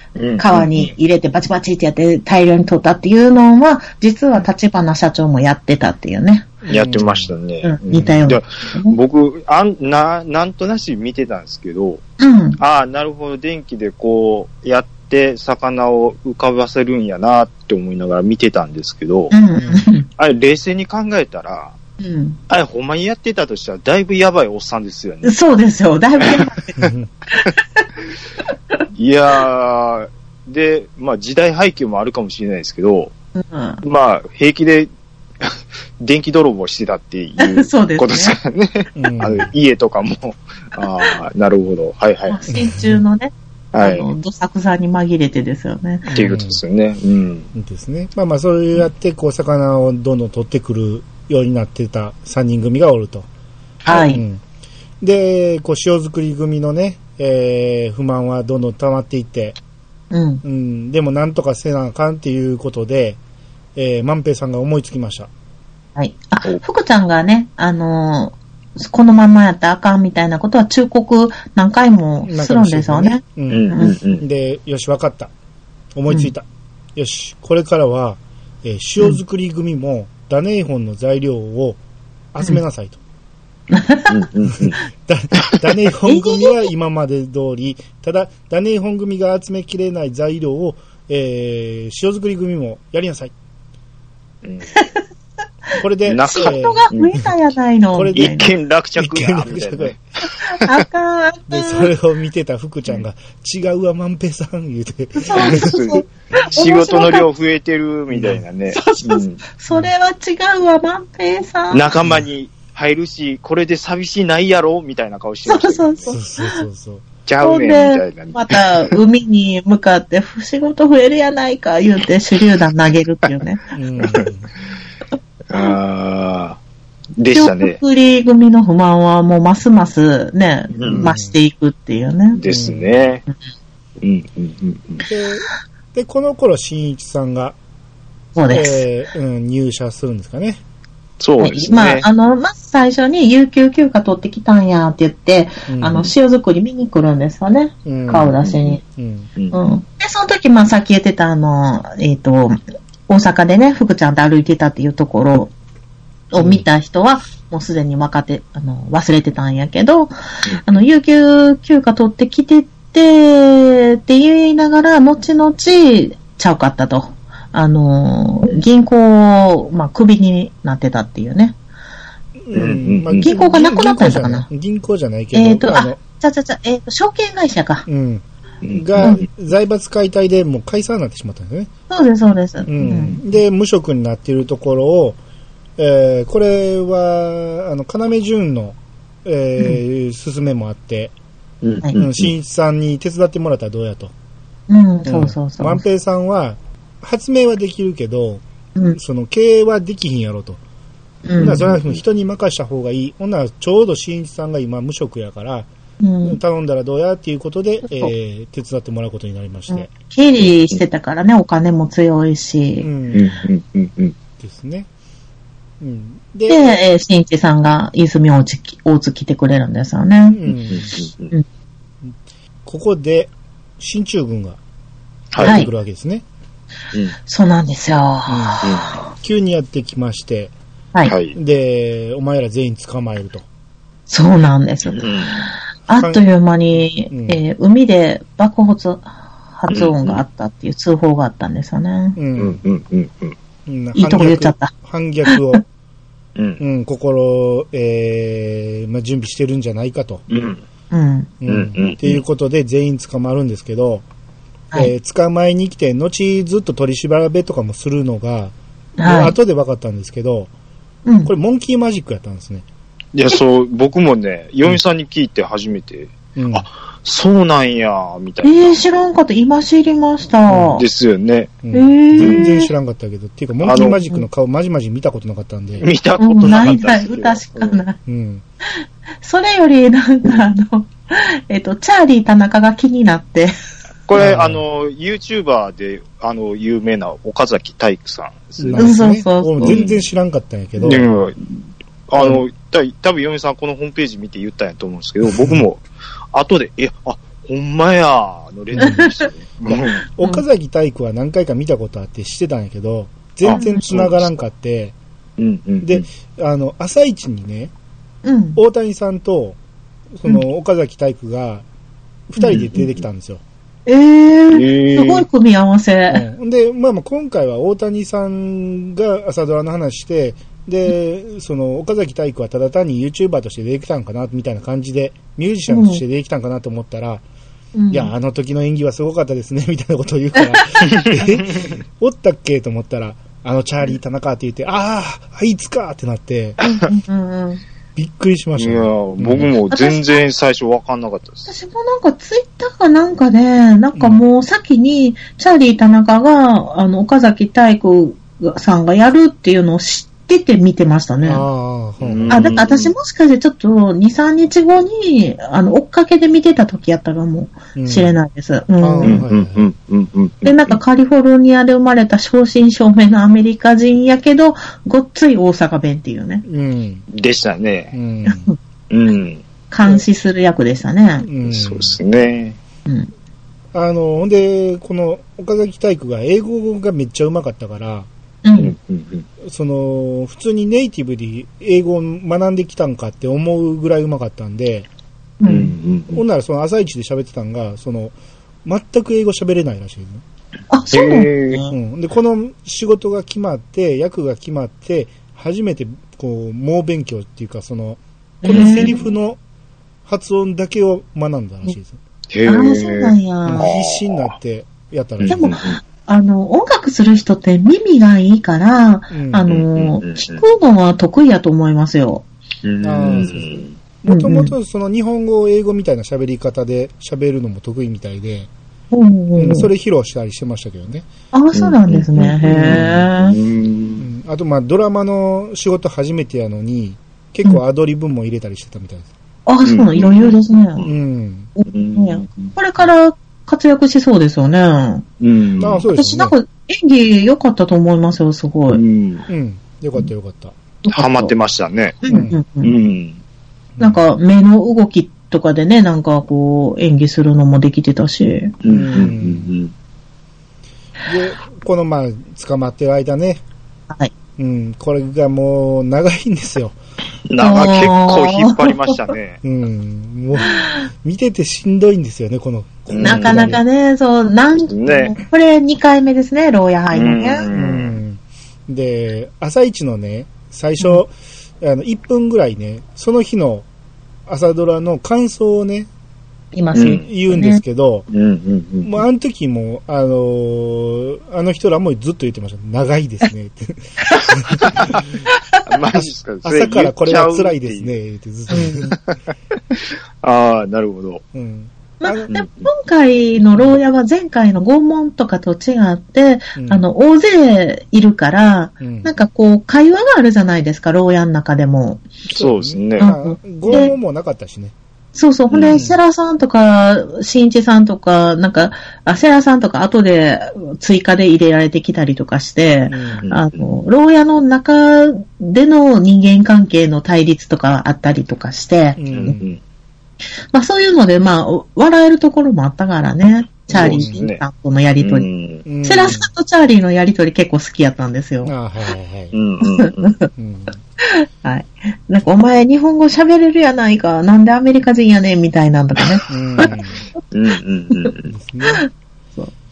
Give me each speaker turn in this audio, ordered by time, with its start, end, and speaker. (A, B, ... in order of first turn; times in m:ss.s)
0:00.2-0:00.9 A
0:00.4-0:06.5 B
0:06.6-0:07.3 C
0:06.7-0:12.0 A
0:07.6-0:09.0 B
0:12.2-0:12.6 B
0:12.6-0:19.3 A
0:19.3-0:20.0 B
0:20.2-0:21.8 A
0:22.0-0:22.4 B
0:22.5-0:25.4 A
0:25.2-0:26.8 B
0:26.8-0:27.1 C
0:27.3-0:27.8 B
0:28.4-0:28.8 B
0:29.0-0:33.1 A
0:33.4-0:33.8 B
0:33.8-0:34.9 A
0:35.4-0:42.5 A
0:37.4-0:38.4 B
0:38.9-0:39.5 C
0:42.3-0:46.2 B
0:42.5-0:43.0 C
0:43.7-0:44.1 A
0:46.0-0:46.6 C
0:46.1-0:47.5 A
0:47.5-0:53.3 C
0:53.8-0:54.2 B
0:53.9-0:54.4 C
0:55.0-0:59.6 C
1:00.1-1:00.4 B
1:00.4-1:03.2 C
1:03.8-1:05.3 C
1:06.0-1:14.0 B
1:12.2-1:15.3 C
1:13.5-1:14.2 A
1:15.9-1:16.4 C
1:17.0-1:21.8 C
1:22.3-1:23.0 C
1:23.7-1:24.2 B
1:24.1-1:24.8 A
1:24.5-1:33.3 C
1:26.1-1:26.6 B
1:34.4-1:34.7 A
1:34.7-1:35.0 B
1:35.8-1:36.9 C
1:36.0-1:37.2 A
1:36.2-1:38.5 B
1:37.9-1:38.4 C
1:38.1-1:40.8 A
1:39.0-1:39.9 C
1:40.4-1:41.9 B
1:41.5-1:45.7 C
1:45.1-1:47.3 B
1:45.3-1:49.4 A
1:48.1-1:48.4 C
1:48.7-1:51.9 B
1:51.7-1:56.1 A
1:55.4-1:56.6 B
1:56.1-1:57.1 C
1:57.2-1:59.0 A
1:57.4-2:03.6 B
2:03.7-2:04.5 C
2:05.5-2:06.6 A
2:07.2-2:07.8 A
2:07.3-2:12.4 B
2:10.7-2:11.1 A
2:10.9-2:11.4 C
2:12.3-2:13.2 A
2:12.5-2:13.1 C
2:14.0-2:15.0 A
2:15.1-2:17.6 C
2:18.3-2:18.8 B
2:18.5-2:20.6 C
2:21.2-2:22.0 A
2:21.4-2:28.8 B
2:25.7-2:26.0 C
2:27.8-2:28.3 C
2:28.4-2:28.7 A
2:29.0-2:29.3 C
2:29.5-2:35.5 B
2:36.3-2:40.1 B
2:40.5-2:40.8 A
2:40.6-2:51.6 B
2:52.4-2:56.0 C
2:52.5-2:53.3 A
2:53.2-2:54.5 B
2:55.3-2:57.8 B
2:57.9-3:01.7 C
2:58.6-2:59.2 A
3:01.9-3:03.2 B
3:02.7-3:05.2 C
3:02.9-3:03.2 A
3:05.8-3:11.1 C
3:11.6-3:12.3 A
3:12.0-3:14.1 C
3:14.7-3:15.8 B
3:15.0-3:18.4 C
3:19.0-3:20.6 C
3:21.2-3:21.6 B
3:21.4-3:22.0 A
3:21.4-3:25.7 C
3:26.0-3:26.4 B
3:26.2-3:29.9 C
3:29.7-3:32.9 B
3:30.4-3:30.8 A
3:32.8-3:33.3 C
3:33.1-3:34.1 A
3:34.4-3:34.9 C
3:35.8-3:36.8 C
3:36.5-3:40.4 B
3:40.3-3:40.9 C
3:40.5-3:41.3 A
3:42.6-3:44.6 C
3:45.3-3:45.7 A
3:45.4-3:46.2 C
3:45.4-3:45.7 B
3:47.2-3:49.1 B
3:48.3-3:50.5 C
3:48.6-3:49.0 A
3:51.0-3:51.4 A
3:51.3-3:53.4 C
3:54.1-3:55.4 B
3:54.9-3:55.5 A
3:55.9-4:02.2 B
3:55.9-3:56.3 C
3:56.8-3:57.4 C
3:59.7-4:00.2 A
4:02.2-4:02.6 C
4:02.4-4:03.4 A
4:03.7-4:05.6 C
4:03.9-4:04.7 B
4:05.2-4:05.6 B
4:06.4-4:06.6 A
4:06.6-4:10.2 C
4:10.3-4:10.6 A
4:10.9-4:11.3 B
4:11.4-4:14.0 C
4:11.5-4:12.2 A
4:14.7-4:20.5 C
4:19.0-4:19.4 B
4:21.0-4:21.3 B
4:21.2-4:22.6 C
4:23.1-4:28.8 A
4:26.4-4:26.6 C
4:28.4-4:30.8 B
4:30.5-4:30.8 C
4:30.8-4:31.5 A
4:31.6-4:35.9 C
4:31.7-4:32.7 B
4:32.2-4:32.5 A
4:33.6-4:34.0 A
4:35.8-4:37.8 A
4:36.2-4:38.0 B
4:38.0-4:38.4 C
4:39.2-4:43.5 B
4:44.1-4:49.0 A
4:44.1-4:44.6 C
4:48.6-4:51.1 C
4:48.8-4:49.8 B
4:49.6-4:50.0 A
4:50.8-4:51.4 A
4:52.1-5:00.0 A
4:55.2-4:55.6 C
4:58.8-5:04.9 C
4:58.8-4:59.3 B
5:03.4-5:04.3 A
5:03.5-5:03.8 B
5:05.4-5:06.0 A
5:05.8-5:07.7 C
5:08.2-5:08.6 B
5:08.6-5:09.6 C
5:10.1-5:11.6 C
5:12.3-5:13.4 C
5:12.4-5:12.6 B
5:12.5-5:13.0 A
5:13.9-5:16.2 B
5:14.5-5:15.3 A
5:16.1-5:27.2 C
5:25.7-5:26.0 B
5:27.7-5:28.1 B
5:27.9-5:36.6 C
5:30.4-5:30.8 B
5:31.0-5:31.4 A
5:36.6-5:37.6 B
5:38.0-5:39.5 C
5:38.6-5:41.5 A
5:39.7-5:40.2 B
5:41.4-5:51.4 B
5:43.9-5:44.2 C
5:51.2-5:52.6 C
5:52.0-5:52.9 A
5:52.3-5:59.2 B
5:57.8-5:58.2 C
5:58.8-5:59.7 C
5:59.0-6:00.8 A
6:00.4-6:06.4 B
6:06.4-6:07.0 C
6:07.1-6:07.9 A
6:07.9-6:08.5 C
6:08.2-6:08.6 B
6:08.9-6:09.4 A
6:09.7-6:11.3 B
6:11.2-6:12.0 C
6:11.4-6:12.6 A
6:13.7-6:18.1 C
6:18.4-6:18.7 B
6:18.6-6:19.2 A
6:19.4-6:24.9 C
6:25.4-6:25.7 B
6:25.4-6:26.2 A
6:26.1-6:30.2 C
6:30.7-6:31.7 B
6:30.9-6:31.6 A
6:31.7-6:39.4 C
6:38.4-6:38.9 B
6:38.5-6:39.1 A
6:40.0-6:42.0 C
6:42.3-6:44.3 A
6:42.4-6:43.7 B
6:43.4-6:45.5 C
6:45.2-6:45.8 A
6:45.3-6:52.2 B
6:49.1-6:49.5 C
6:49.5-6:50.4 A
6:52.6-6:53.8 A
6:52.8-6:53.5 C
6:54.0-6:58.5 C
6:54.1-6:54.5 B
6:58.9-6:59.7 B
6:59.4-7:01.0 C
7:01.3-7:03.4 B
7:01.5-7:04.0 A
7:02.6-7:03.1 C
7:04.0-7:09.1 C
7:09.5-7:10.8 B
7:09.6-7:10.9 A
7:10.8-7:11.5 C
7:11.6-7:15.0 B
7:11.7-7:12.6 A
7:15.2-7:15.9 A
7:15.6-7:16.3 C
7:15.9-7:18.8 B
7:18.7-7:19.3 A
7:19.3-7:20.6 C
7:20.8-7:21.3 B
7:20.9-7:22.0 A
7:22.0-7:22.7 B
7:22.1-7:22.4 C
7:22.6-7:23.2 A
7:23.8-7:24.0 C
7:23.8-7:28.6 B
7:28.6-7:29.7 A
7:28.7-7:29.5 C
7:31.0-7:33.4 C
7:34.4-7:36.8 C
7:37.3-7:39.4 A
7:37.4-7:39.1 B
7:39.4-7:43.6 C
7:40.4-7:40.7 B
7:42.9-7:43.6 A
7:43.0-7:47.5 B
7:44.7-7:45.1 A
7:46.9-7:48.0 A
7:47.5-7:53.6 C
7:54.3-7:55.9 C
7:56.5-7:57.6 B
7:56.7-7:57.1 A
7:56.8-7:58.1 C
7:58.1-7:59.0 A
7:58.8-8:05.2 C
8:05.4-8:05.6 B
8:05.6-8:07.9 A
8:05.9-8:09.0 C
8:08.5-8:08.8 B
8:08.6-8:09.2 A
8:09.7-8:11.2 A
8:11.3-8:12.3 C
8:12.0-8:22.1 B
8:12.3-8:12.7 A
8:16.6-8:16.8 C
8:18.8-8:19.1 C
8:22.3-8:23.1 A
8:22.3-8:24.7 C
8:23.0-8:23.9 B
8:23.6-8:23.9 A
8:25.1-8:39.4 B
8:25.5-8:25.9 A
8:25.7-8:26.0 C
8:32.9-8:33.2 C
8:33.2-8:33.7 A
8:39.0-8:39.4 C
8:39.1-8:39.6 A
8:40.5-8:45.3 B
8:43.7-8:44.2 C
8:43.7-8:44.4 A
8:45.0-8:45.6 A
8:45.6-8:46.3 C
8:45.8-8:48.5 B
8:48.4-8:49.3 C
8:49.3-8:50.2 A
8:49.6-8:50.3 B
8:50.4-8:50.8 C
8:51.0-8:56.7 B
8:56.3-8:57.0 C
8:57.3-8:58.3 A
8:58.3-8:58.8 C
8:58.6-8:59.5 B